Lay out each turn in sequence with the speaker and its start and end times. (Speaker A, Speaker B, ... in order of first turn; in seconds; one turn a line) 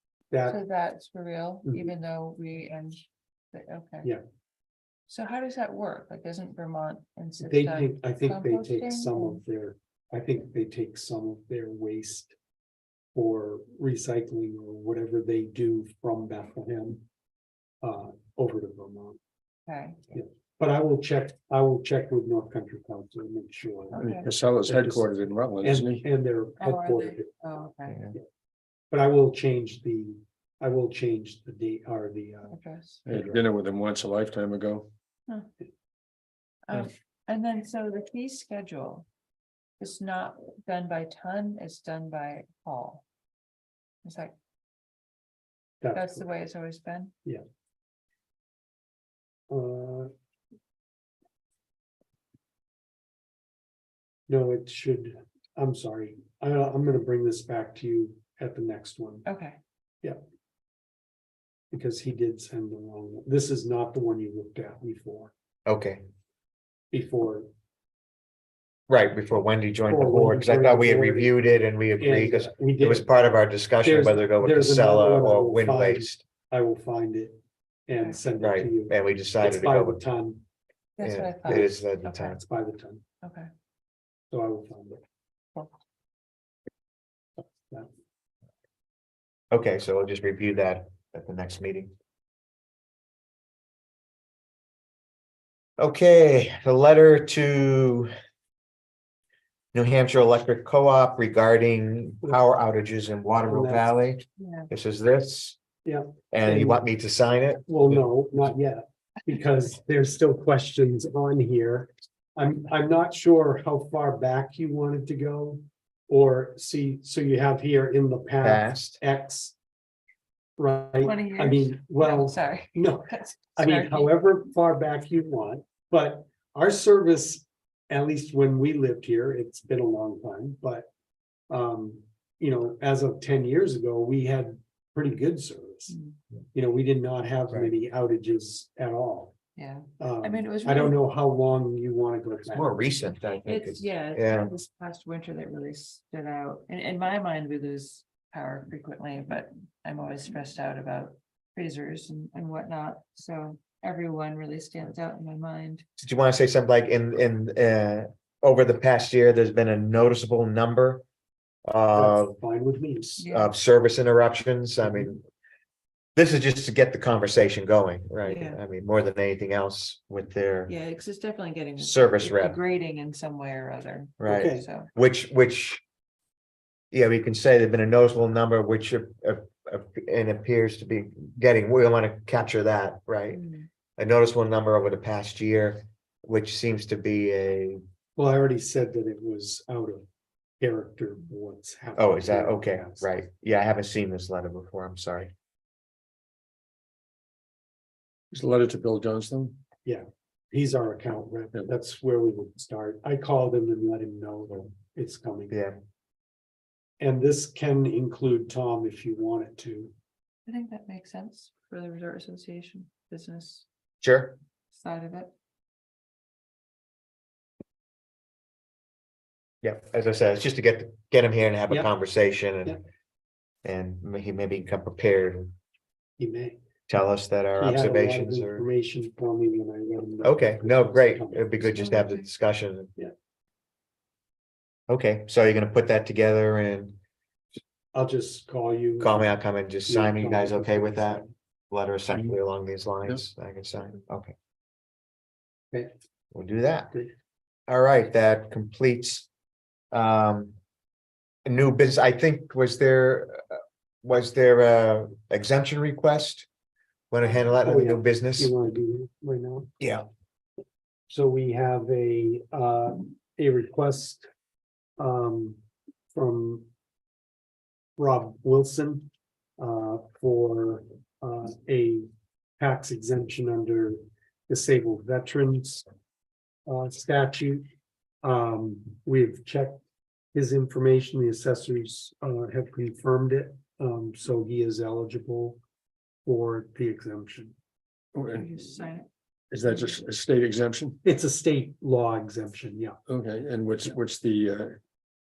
Speaker A: 0.3-0.6
Speaker B: 0.5-4.1
Speaker A: 1.6-1.9
Speaker B: 5.1-9.4
Speaker A: 7.4-12.3
Speaker A: 13.1-17.0
Speaker A: 17.8-19.2
Speaker B: 19.7-20.0
Speaker A: 20.1-24.0
Speaker B: 23.9-24.3
Speaker C: 23.9-26.1
Speaker A: 24.6-27.3
Speaker B: 26.6-28.0
Speaker D: 27.9-28.1
Speaker A: 28.9-32.5
Speaker B: 32.5-33.0
Speaker C: 33.0-34.9
Speaker A: 33.1-33.3
Speaker B: 36.7-39.0
Speaker B: 39.8-43.0
Speaker B: 44.0-44.3
Speaker A: 45.8-46.3
Speaker B: 45.9-47.1
Speaker A: 49.5-50.1
Speaker A: 54.3-59.3
Speaker B: 59.3-59.6
Speaker A: 61.7-65.3
Speaker D: 65.7-66.0
Speaker A: 66.9-67.5
Speaker D: 68.9-76.2
Speaker A: 69.9-71.3
Speaker A: 72.0-73.1
Speaker A: 73.8-80.4
Speaker D: 78.4-80.0
Speaker B: 81.0-82.4
Speaker D: 81.0-82.4
Speaker A: 82.4-83.0
Speaker B: 83.2-83.5
Speaker A: 84.3-85.0
Speaker A: 87.4-87.9
Speaker D: 89.5-91.9
Speaker D: 95.8-98.1
Speaker D: 99.7-105.6
Speaker A: 103.5-103.9
Speaker B: 104.4-104.7
Speaker A: 105.8-106.8
Speaker D: 106.3-107.7
Speaker A: 107.7-119.6
Speaker D: 118.4-119.0
Speaker A: 120.6-130.9
Speaker B: 121.0-124.1
Speaker A: 131.5-135.9
Speaker B: 135.9-136.2
Speaker A: 136.5-139.3
Speaker B: 139.6-141.0
Speaker A: 140.0-142.8
Speaker D: 142.5-144.5
Speaker B: 143.4-155.8
Speaker D: 156.0-161.0
Speaker D: 161.7-162.4
Speaker A: 161.9-163.2
Speaker B: 163.2-163.5
Speaker D: 163.2-165.2
Speaker D: 166.2-170.7
Speaker B: 168.2-168.6
Speaker B: 170.7-174.9
Speaker D: 171.8-172.6
Speaker D: 174.2-175.8
Speaker A: 174.2-174.7
Speaker D: 176.9-183.4
Speaker B: 183.3-183.7
Speaker D: 184.0-187.8
Speaker A: 188.2-190.1
Speaker A: 190.6-193.1
Speaker D: 192.0-195.3
Speaker C: 198.3-199.6
Speaker A: 199.8-205.6
Speaker D: 205.5-205.8
Speaker A: 207.0-209.9
Speaker B: 210.5-213.7
Speaker D: 214.0-214.4
Speaker B: 214.7-215.3
Speaker D: 219.6-222.8
Speaker D: 223.7-225.5
Speaker A: 226.2-226.6
Speaker D: 226.9-228.7
Speaker A: 227.6-231.9
Speaker D: 230.2-232.9
Speaker B: 231.8-232.3
Speaker D: 234.9-237.0
Speaker A: 237.9-239.3
Speaker D: 239.0-244.3
Speaker A: 239.9-241.3
Speaker D: 246.3-246.9
Speaker D: 247.7-249.3
Speaker D: 249.9-250.5
Speaker D: 251.4-256.5
Speaker D: 257.1-258.5
Speaker A: 257.6-259.7
Speaker D: 259.8-260.1
Speaker A: 261.1-264.2
Speaker A: 265.0-265.6
Speaker A: 266.1-266.7
Speaker A: 268.0-272.1
Speaker A: 272.6-275.9
Speaker A: 276.6-277.7
Speaker A: 278.2-279.8
Speaker A: 280.3-285.6
Speaker A: 286.2-287.5
Speaker C: 288.1-288.5
Speaker B: 288.3-289.1
Speaker C: 289.5-291.0
Speaker B: 289.6-290.0
Speaker A: 291.0-293.0
Speaker C: 293.1-294.8